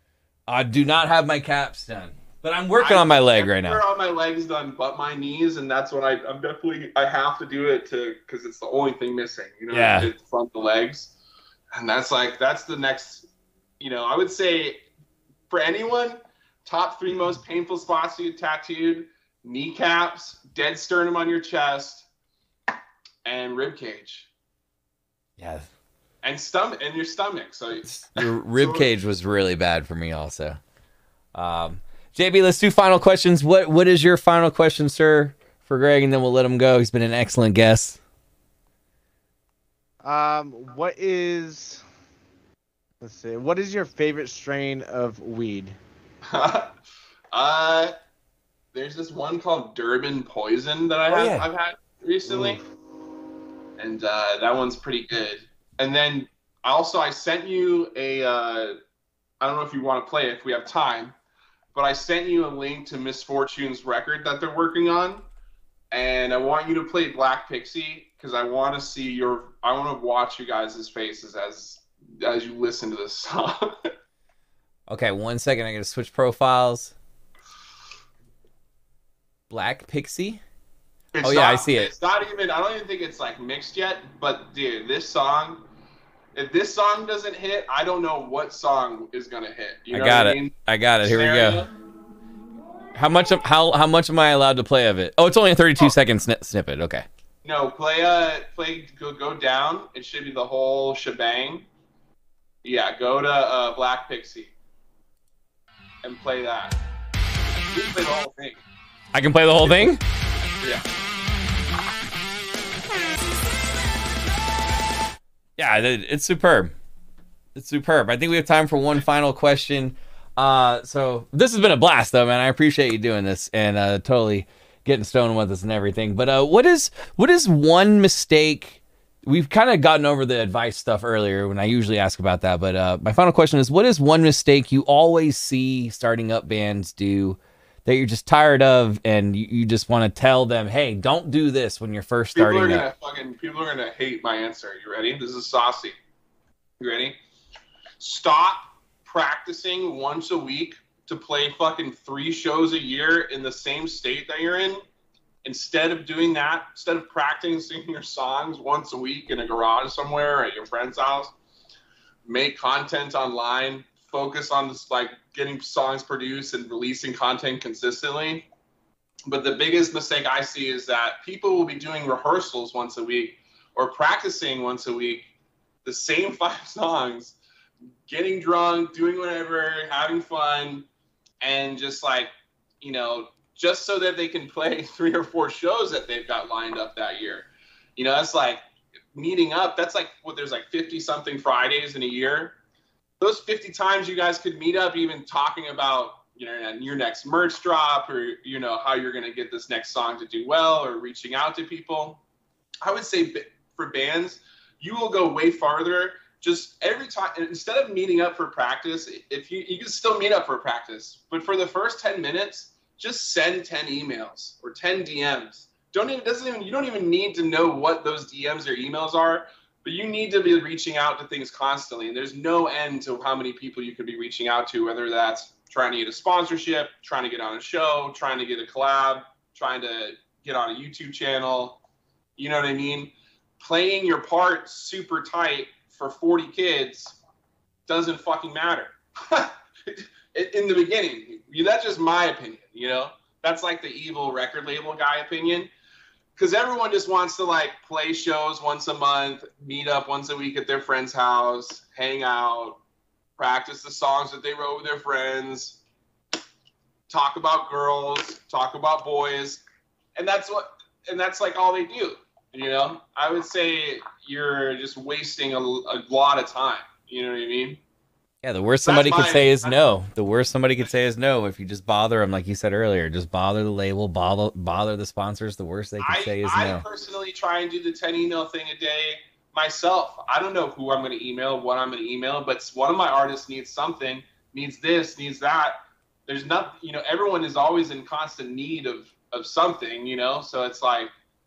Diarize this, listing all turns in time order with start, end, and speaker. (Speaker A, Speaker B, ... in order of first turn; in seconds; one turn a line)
Speaker A: 0.5-3.8
Speaker B: 2.8-11.1
Speaker A: 9.7-10.1
Speaker B: 11.7-13.3
Speaker B: 13.8-14.8
Speaker B: 15.5-22.1
Speaker B: 23.2-24.3
Speaker A: 25.4-25.7
Speaker B: 26.2-28.9
Speaker A: 27.9-30.6
Speaker A: 31.3-38.0
Speaker C: 40.0-41.8
Speaker C: 43.0-45.8
Speaker B: 46.3-46.7
Speaker B: 47.3-47.9
Speaker B: 48.7-52.6
Speaker A: 51.1-51.5
Speaker B: 53.8-58.8
Speaker B: 59.4-61.1
Speaker B: 61.7-65.2
Speaker B: 65.9-73.9
Speaker A: 74.9-76.9
Speaker A: 79.5-80.4
Speaker B: 81.1-85.6
Speaker A: 81.2-81.9
Speaker B: 86.3-91.7
Speaker A: 89.9-91.6
Speaker A: 93.0-97.0
Speaker B: 97.4-101.7
Speaker B: 102.6-104.5
Speaker B: 106.0-106.8
Speaker B: 107.5-108.6
Speaker A: 109.1-110.0
Speaker B: 109.6-109.9
Speaker A: 115.6-116.7
Speaker A: 117.5-142.8
Speaker B: 142.3-145.9
Speaker B: 146.8-147.2
Speaker B: 148.0-154.8
Speaker B: 155.4-161.3
Speaker B: 162.2-168.4
Speaker B: 169.3-175.3
Speaker B: 175.8-177.3
Speaker B: 178.1-180.9
Speaker B: 181.4-182.3
Speaker B: 182.8-188.6
Speaker B: 189.1-192.6
Speaker B: 193.2-202.2
Speaker B: 202.8-231.8
Speaker B: 232.4-237.2
Speaker B: 237.9-245.7
Speaker B: 246.3-252.8
Speaker B: 253.4-255.8
Speaker B: 257.1-259.6
Speaker B: 260.2-267.8
Speaker A: 268.4-276.8
Speaker B: 268.8-269.8
Speaker B: 276.0-291.1